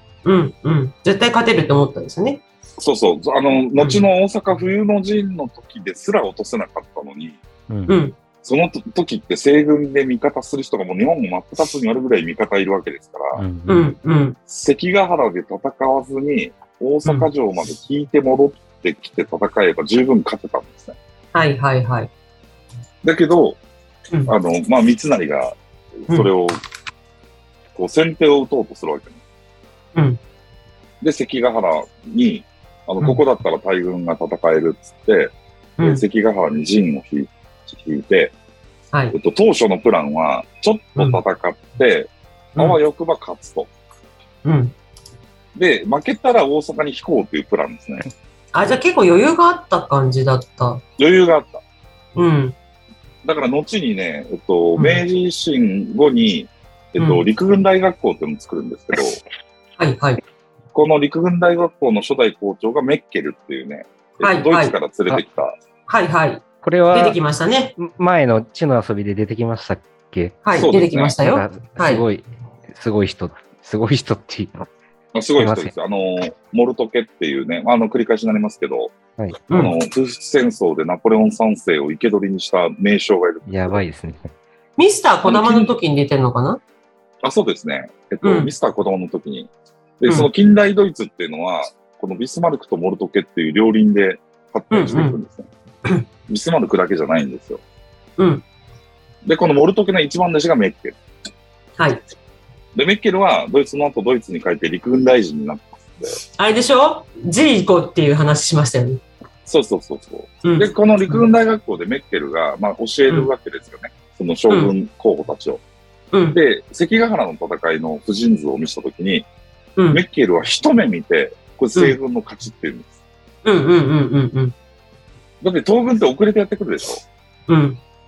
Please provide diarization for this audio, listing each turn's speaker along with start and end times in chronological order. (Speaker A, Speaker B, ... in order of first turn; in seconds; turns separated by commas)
Speaker A: 0.2-2.4, Speaker B: 2.8-7.4, Speaker A: 3.8-4.0, Speaker C: 7.7-8.0, Speaker A: 7.9-8.1, Speaker B: 8.4-13.4, Speaker C: 13.3-13.9, Speaker A: 13.7-14.4, Speaker B: 14.5-21.0, Speaker A: 21.3-22.1, Speaker B: 23.0-23.6, Speaker B: 24.3-26.6, Speaker B: 27.7-29.2, Speaker B: 31.0-38.3, Speaker A: 35.8-36.0, Speaker B: 39.1-43.7, Speaker A: 44.4-44.7, Speaker B: 45.5-48.0, Speaker A: 48.5-50.8, Speaker B: 51.0-51.6, Speaker A: 52.1-52.5, Speaker B: 53.2-59.2, Speaker A: 54.8-55.0, Speaker A: 57.0-57.2, Speaker A: 59.8-60.2, Speaker B: 60.7-65.5, Speaker A: 64.2-64.7, Speaker A: 65.9-67.7, Speaker C: 66.6-67.2, Speaker C: 67.8-74.7, Speaker A: 70.4-72.0, Speaker B: 70.5-71.2, Speaker B: 75.1-78.9, Speaker C: 75.4-75.7, Speaker B: 79.5-83.8, Speaker C: 83.5-84.3, Speaker A: 84.8-86.6, Speaker B: 85.2-85.7, Speaker B: 87.2-95.5, Speaker A: 88.2-88.5, Speaker A: 94.7-95.2, Speaker B: 96.3-97.6, Speaker A: 98.2-98.4, Speaker B: 99.2-101.0, Speaker B: 102.7-106.2, Speaker A: 106.4-109.0, Speaker B: 109.5-115.6, Speaker A: 110.4-111.2, Speaker A: 116.1-116.4, Speaker B: 116.3-119.3, Speaker A: 119.8-120.0, Speaker B: 119.9-122.9, Speaker A: 123.4-124.5, Speaker B: 125.4-127.0, Speaker A: 127.5-127.8